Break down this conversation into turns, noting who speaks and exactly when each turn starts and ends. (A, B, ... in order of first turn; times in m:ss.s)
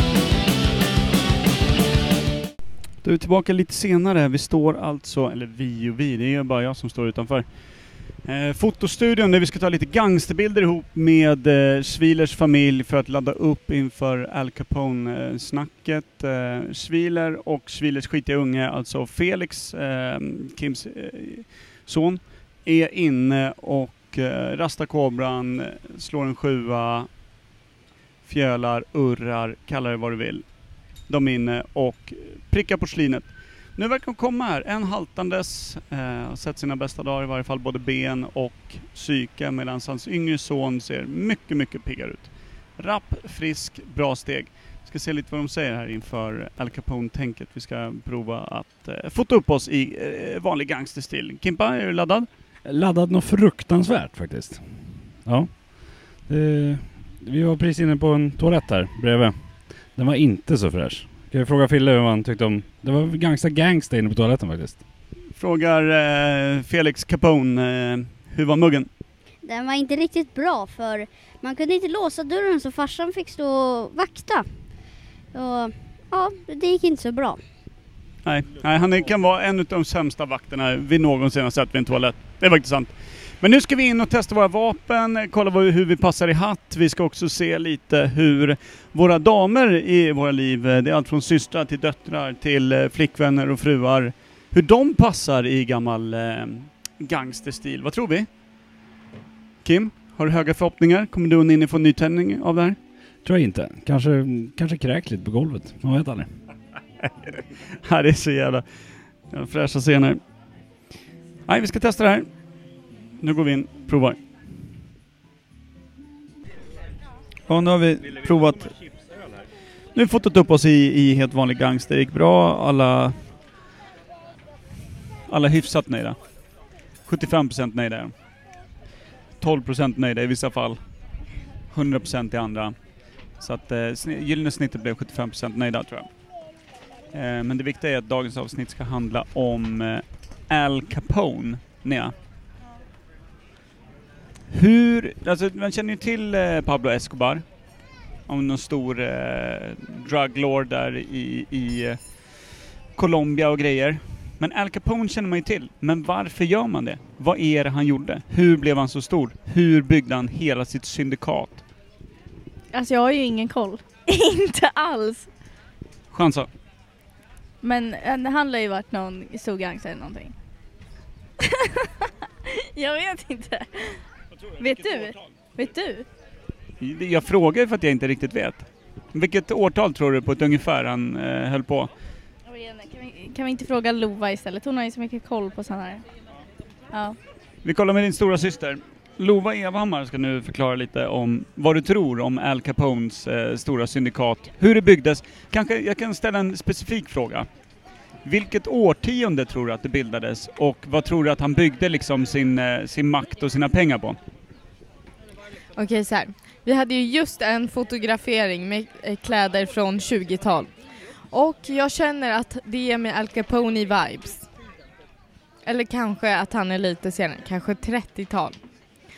0:03.0-0:27.1 A
0:28.2-0:30.5 A
0:31.0-0:52.3 A
0:52.6-1:04.8 B
1:05.4-1:08.9 A
1:09.4-1:17.4 C
1:18.2-1:38.3 A
1:39.6-1:42.8 A
1:43.2-1:46.3 B
1:47.8-1:50.2 A
1:51.5-1:52.3 A
1:53.2-1:54.2 A
1:57.5-1:58.7 A
1:58.5-1:59.2 B
1:59.9-2:03.3 A
2:05.3-2:06.2 A
2:07.0-2:08.1 A
2:09.4-2:11.0 A
2:11.7-2:16.3 A
2:17.1-2:22.1 A
2:24.5-2:27.5 A
2:28.3-2:41.6 A
2:42.7-2:45.3 D
2:46.1-2:46.5 A
2:47.6-2:50.4 D
2:52.7-2:56.1 D
2:56.8-3:01.9 A
3:02.5-3:06.1 D
3:06.9-3:07.2 D
3:07.6-3:17.5 A
3:18.2-3:24.2 A
3:25.8-3:34.5 E
3:35.6-3:38.6 E